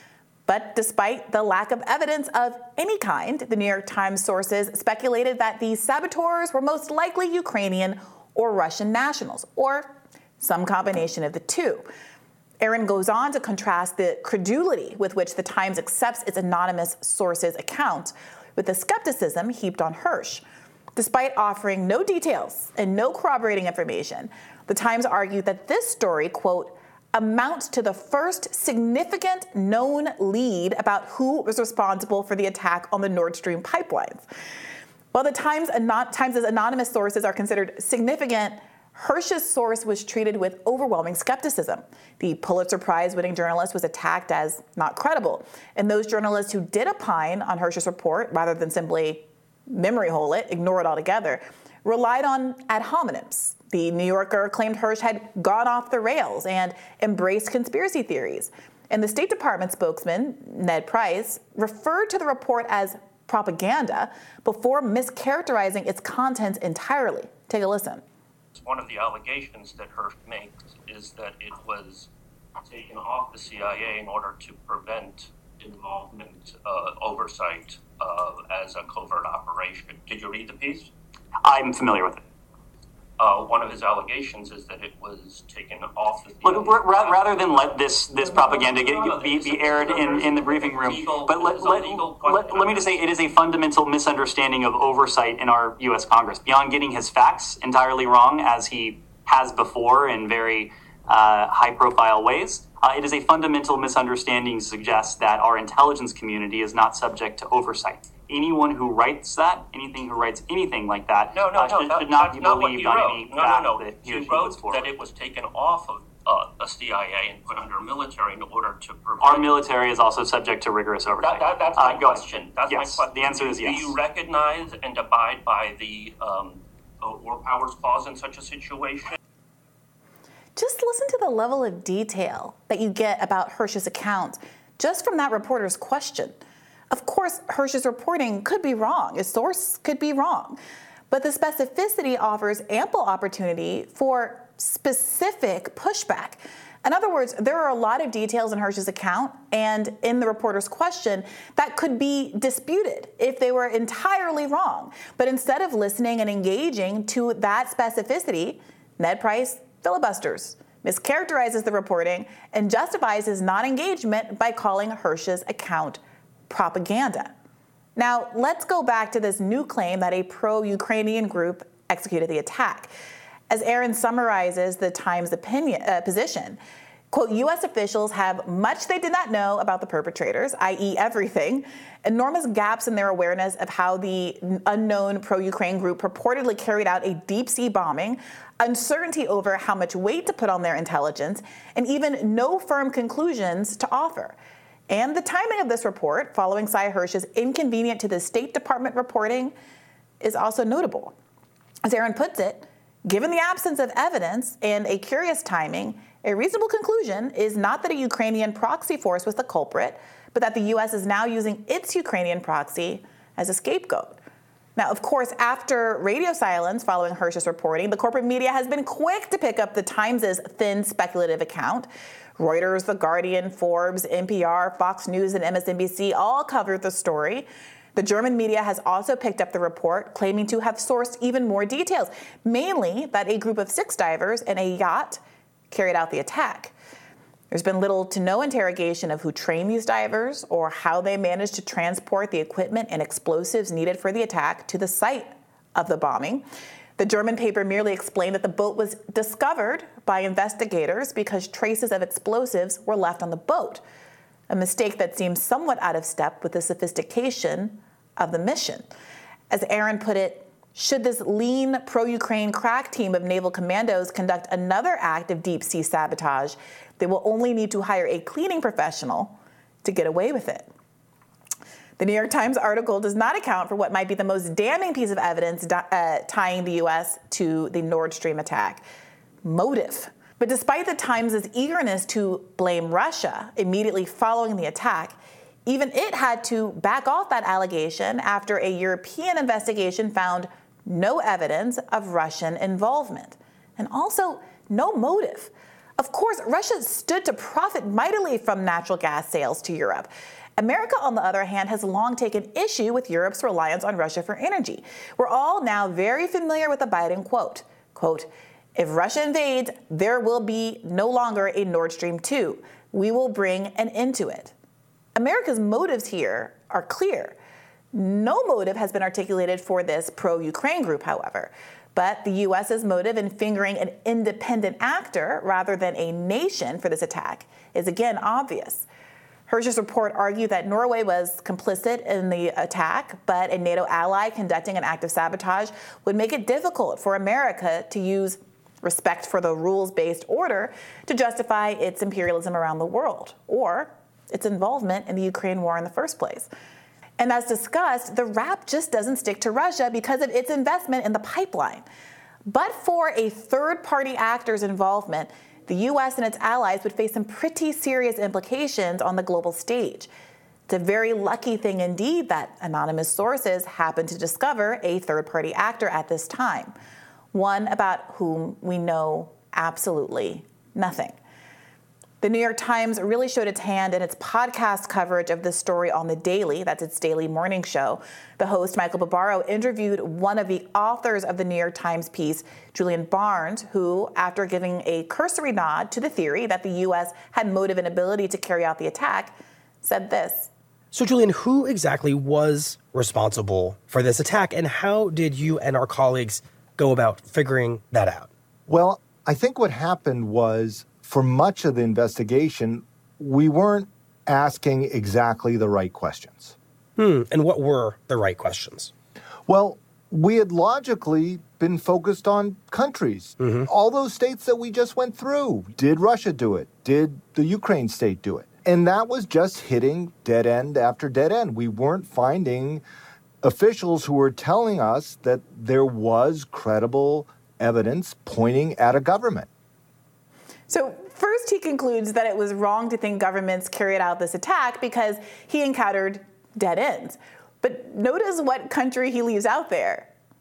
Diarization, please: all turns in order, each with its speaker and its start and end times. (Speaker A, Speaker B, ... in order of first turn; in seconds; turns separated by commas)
Speaker A: 0.5-11.8, Speaker A: 12.6-20.4, Speaker A: 20.9-34.2, Speaker A: 35.1-68.0, Speaker B: 68.5-72.1, Speaker B: 72.7-80.9, Speaker C: 81.4-82.2, Speaker B: 83.2-93.0, Speaker C: 86.4-114.9, Speaker B: 111.3-119.6, Speaker C: 119.2-123.9, Speaker B: 121.2-129.2, Speaker A: 130.6-136.4, Speaker A: 136.9-140.6, Speaker A: 141.1-167.3, Speaker A: 167.9-172.9, Speaker A: 173.5-176.6, Speaker A: 177.1-194.4, Speaker A: 194.9-199.5, Speaker A: 200.2-201.1, Speaker A: 201.8-214.2, Speaker A: 214.8-236.7, Speaker A: 237.5-246.4, Speaker A: 247.0-253.8, Speaker A: 254.5-258.9, Speaker A: 259.5-270.7, Speaker A: 272.0-278.8, Speaker A: 279.4-314.5, Speaker A: 315.1-317.4, Speaker A: 317.9-328.9, Speaker A: 329.5-346.5, Speaker A: 347.2-351.9, Speaker A: 352.4-360.1, Speaker A: 360.7-366.7, Speaker A: 367.3-371.2, Speaker A: 372.2-390.5, Speaker D: 390.9-398.3, Speaker E: 398.7-406.6, Speaker D: 407.0-408.9, Speaker E: 409.5-422.8, Speaker D: 413.4-413.7, Speaker E: 423.4-429.5, Speaker A: 430.7-440.1